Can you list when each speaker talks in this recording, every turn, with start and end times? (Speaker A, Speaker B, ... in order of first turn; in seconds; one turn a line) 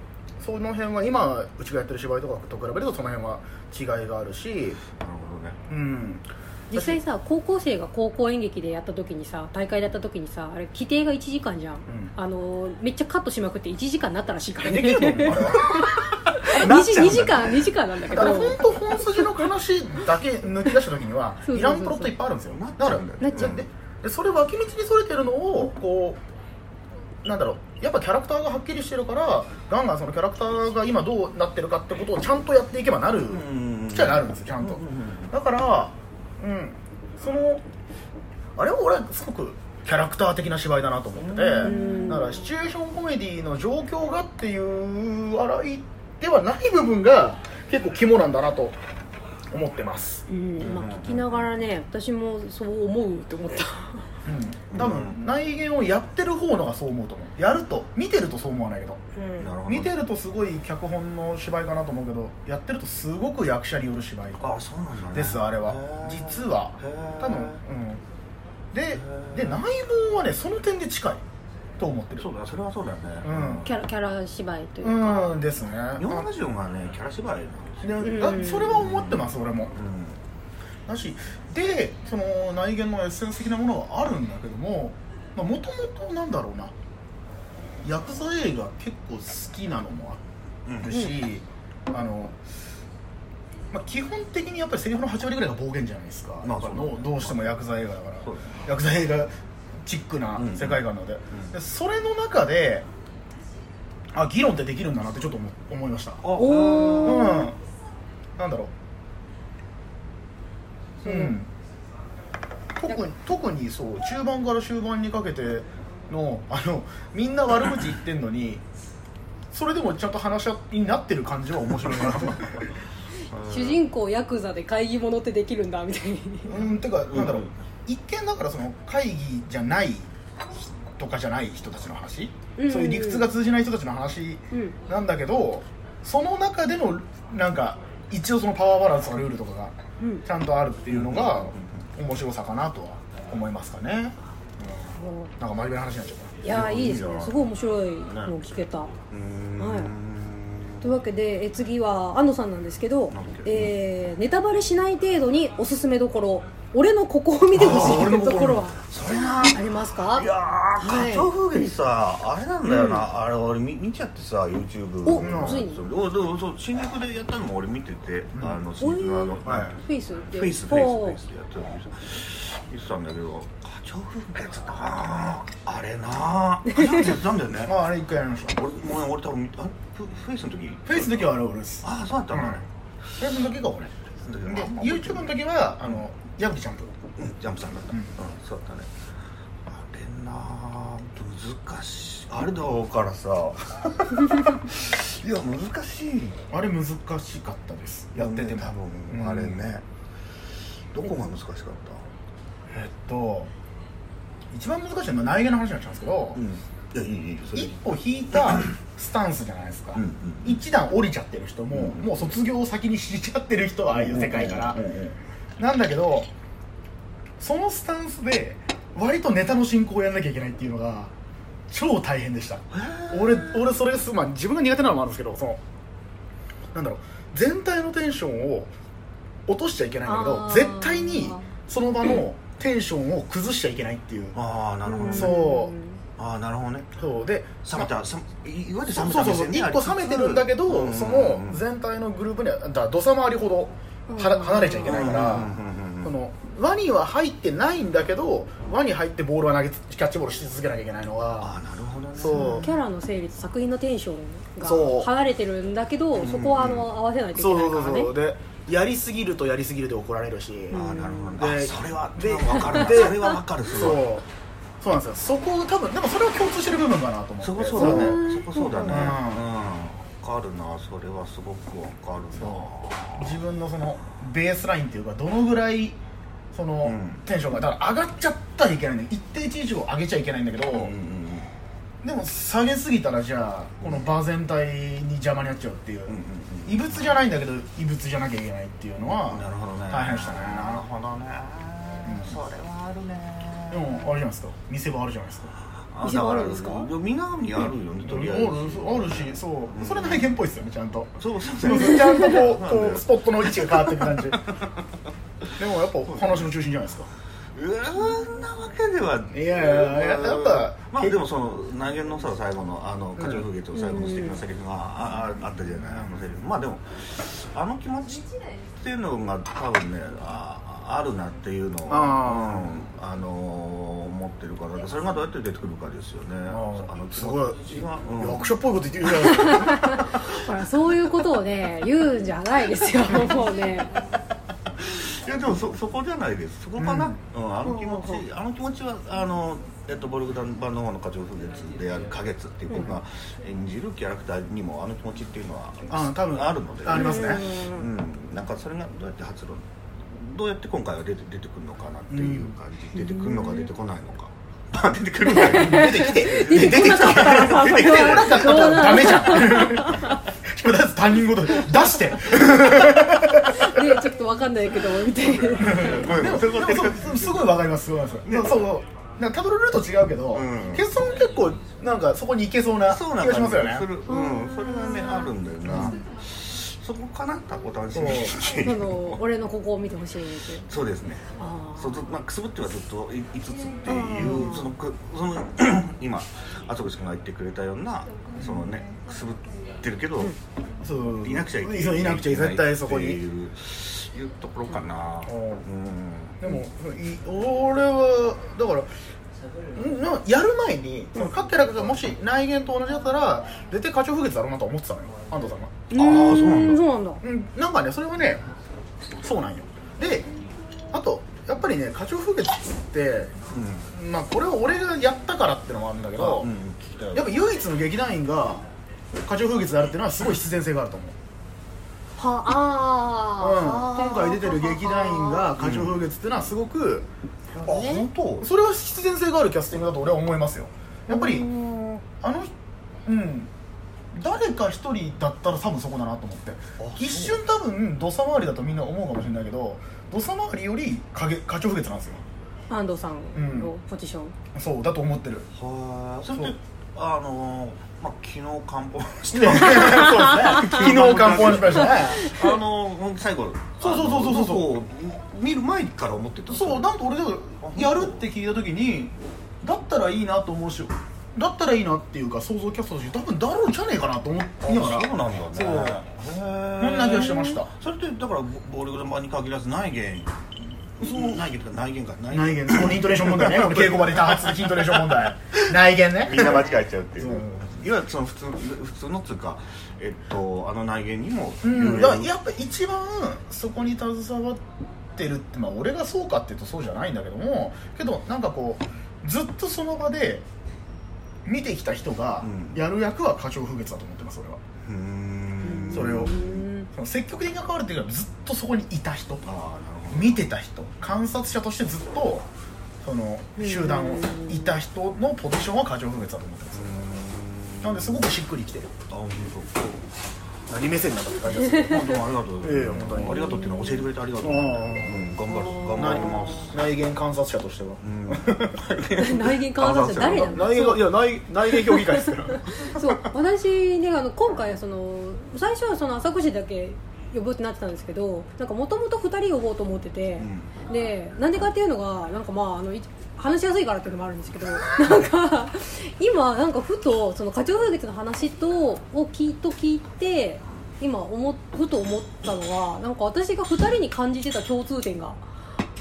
Speaker A: 0.4-4.8
Speaker B: 4.9-5.6
Speaker A: 5.7-7.0
Speaker C: 6.7-18.8
Speaker A: 11.9-12.1
Speaker A: 14.6-26.2
Speaker C: 21.5-22.1
Speaker B: 22.5-23.6
Speaker C: 23.2-23.5
Speaker A: 27.2-37.6
Speaker B: 33.3-35.3
Speaker A: 38.5-48.8
Speaker B: 41.2-42.0
Speaker C: 41.6-42.4
Speaker A: 49.5-50.2
Speaker C: 50.3-54.1
Speaker B: 50.6-51.5
Speaker A: 54.2-59.0
Speaker B: 54.7-55.1
Speaker C: 59.1-59.5
Speaker B: 59.4-59.9
Speaker A: 59.6-64.6
Speaker B: 64.4-67.6
Speaker A: 65.1-68.0
Speaker A: 68.7-71.2
Speaker B: 68.9-69.6
Speaker A: 71.8-72.3
Speaker B: 72.2-73.7
Speaker A: 73.2-73.7
Speaker C: 73.6-75.4
Speaker A: 74.8-76.3
Speaker B: 76.0-78.0
Speaker A: 77.8-79.7
Speaker C: 78.0-78.8
Speaker B: 78.6-80.2
Speaker A: 80.9-86.7
Speaker A: 87.8-90.2
Speaker B: 90.7-90.9
Speaker A: 90.8-92.4
Speaker A: 93.7-99.3
Speaker B: 96.4-97.6
Speaker B: 98.2-98.6
Speaker A: 99.8-102.9
Speaker B: 100.4-101.5
Speaker A: 104.1-106.2
Speaker B: 106.2-107.4
Speaker C: 106.3-107.5
Speaker A: 107.0-107.6
Speaker A: 108.4-108.7
Speaker A: 111.0-111.5
Speaker C: 111.0-111.3
Speaker A: 112.8-118.6
Speaker A: 119.5-122.7
Speaker B: 123.3-123.8
Speaker C: 123.4-126.6
Speaker A: 126.5-146.4
Speaker B: 127.1-127.5
Speaker C: 132.6-133.3
Speaker B: 140.9-141.8
Speaker C: 145.0-145.3
Speaker C: 146.4-148.9
Speaker B: 146.5-147.4
Speaker B: 149.1-150.9
Speaker C: 149.6-149.9
Speaker C: 150.8-158.8
Speaker B: 153.1-153.7
Speaker B: 157.6-169.8
Speaker A: 157.6-158.6
Speaker C: 159.4-160.3
Speaker C: 160.8-161.7
Speaker C: 165.0-165.8
Speaker A: 165.2-165.7
Speaker A: 168.3-168.6
Speaker C: 168.8-171.2
Speaker A: 169.4-169.7
Speaker B: 170.3-177.7
Speaker C: 176.7-177.0
Speaker A: 177.6-178.6
Speaker B: 178.5-182.6
Speaker A: 180.8-182.6
Speaker A: 183.2-186.9
Speaker B: 184.2-185.3
Speaker B: 187.2-188.9
Speaker B: 189.7-196.4
Speaker A: 196.5-199.6
Speaker B: 198.2-199.8
Speaker B: 200.9-202.0
Speaker A: 202.7-203.5
Speaker A: 204.5-206.4
Speaker B: 206.3-207.7
Speaker A: 207.5-214.8
Speaker B: 209.9-210.6
Speaker B: 211.7-212.0
Speaker B: 213.9-215.2
Speaker A: 215.6-216.3
Speaker A: 217.4-221.1
Speaker A: 221.7-225.6
Speaker B: 222.7-223.6
Speaker A: 226.7-228.7
Speaker A: 229.5-234.4
Speaker C: 230.1-231.5
Speaker B: 234.3-235.4
Speaker C: 234.8-236.0
Speaker A: 235.1-235.7
Speaker B: 236.2-236.9
Speaker A: 236.9-237.9
Speaker B: 237.6-241.6
Speaker A: 238.9-251.5
Speaker C: 244.1-245.1
Speaker B: 244.8-246.1
Speaker B: 251.4-252.7
Speaker A: 252.2-252.7
Speaker C: 252.3-258.1
Speaker A: 254.6-255.1
Speaker B: 256.1-256.9
Speaker A: 257.3-260.8
Speaker C: 260.7-261.3
Speaker B: 260.7-264.1
Speaker A: 261.3-264.3
Speaker A: 264.8-268.2
Speaker B: 267.4-273.3
Speaker C: 267.8-269.2
Speaker A: 268.8-269.5
Speaker A: 272.4-276.0
Speaker A: 276.5-280.9
Speaker B: 276.8-277.2
Speaker B: 280.7-281.5
Speaker A: 282.0-290.8
Speaker B: 286.1-287.2
Speaker B: 289.1-294.1
Speaker A: 292.0-292.4
Speaker A: 293.7-295.5
Speaker B: 295.9-300.3
Speaker C: 296.0-296.9
Speaker A: 298.0-304.4
Speaker B: 301.2-304.2
Speaker A: 305.6-307.1
Speaker B: 306.1-306.5
Speaker B: 307.5-328.5
Speaker A: 309.3-311.2
Speaker A: 313.2-313.4
Speaker C: 313.7-314.4
Speaker A: 321.9-322.8
Speaker A: 326.5-330.1
Speaker C: 329.3-333.9
Speaker B: 334.8-358.9
Speaker A: 336.8-337.2
Speaker C: 337.6-338.2
Speaker A: 345.9-347.5
Speaker C: 346.9-347.9
Speaker A: 352.1-352.6
Speaker C: 352.9-353.7
Speaker C: 355.3-360.2
Speaker A: 355.3-363.9
Speaker C: 362.9-366.1
Speaker B: 365.1-367.5
Speaker A: 365.6-373.9
Speaker B: 368.2-368.6
Speaker B: 370.3-370.9
Speaker B: 372.9-379.2
Speaker C: 374.1-375.3
Speaker A: 375.6-376.0
Speaker A: 377.9-378.4
Speaker C: 378.6-380.7
Speaker B: 380.7-390.3
Speaker C: 381.3-382.0
Speaker C: 383.8-384.7
Speaker A: 384.2-384.6
Speaker A: 388.4-388.7
Speaker A: 390.8-393.2
Speaker B: 391.2-396.4
Speaker A: 395.2-395.6
Speaker A: 396.4-398.9
Speaker A: 399.7-405.9
Speaker C: 405.9-407.2
Speaker B: 405.9-406.8
Speaker A: 407.2-408.4
Speaker A: 409.2-410.3
Speaker A: 410.9-413.4
Speaker B: 413.5-413.9
Speaker A: 413.9-416.5
Speaker B: 416.1-417.4
Speaker A: 417.1-418.6
Speaker A: 419.2-421.1
Speaker C: 422.2-425.5
Speaker A: 423.4-427.1
Speaker B: 425.6-426.0
Speaker B: 427.6-428.5
Speaker C: 427.6-428.0
Speaker A: 428.4-431.5
Speaker C: 431.1-432.0
Speaker A: 432.2-432.5
Speaker A: 433.0-433.5
Speaker A: 434.1-442.2
Speaker B: 436.8-437.4
Speaker C: 442.7-444.4
Speaker A: 443.3-443.7
Speaker A: 444.5-445.5
Speaker B: 445.5-456.9
Speaker A: 449.3-452.4
Speaker C: 449.8-450.8
Speaker C: 452.2-452.5
Speaker A: 453.8-454.8
Speaker A: 456.5-466.0
Speaker B: 457.6-458.2
Speaker B: 464.6-470.4
Speaker A: 466.8-467.7
Speaker C: 467.2-467.6
Speaker B: 471.0-475.0
Speaker A: 471.0-471.4
Speaker A: 472.3-477.7
Speaker B: 476.2-482.3
Speaker A: 481.6-490.4
Speaker A: 491.4-494.6
Speaker B: 492.4-492.8
Speaker B: 494.8-496.6
Speaker C: 495.6-496.9
Speaker A: 495.9-496.4
Speaker A: 496.9-499.4
Speaker B: 499.4-500.4
Speaker A: 500.1-502.5
Speaker A: 503.0-506.9
Speaker C: 503.6-504.7
Speaker B: 506.7-508.3
Speaker A: 507.8-508.9
Speaker B: 509.1-510.0
Speaker A: 510.7-513.6
Speaker C: 511.6-512.2
Speaker B: 511.8-516.8
Speaker C: 513.2-514.0
Speaker A: 514.4-515.3
Speaker C: 515.5-516.7
Speaker A: 515.9-519.1
Speaker B: 518.0-520.7
Speaker C: 519.1-521.1
Speaker A: 520.5-523.0
Speaker C: 521.9-545.4
Speaker B: 530.4-530.7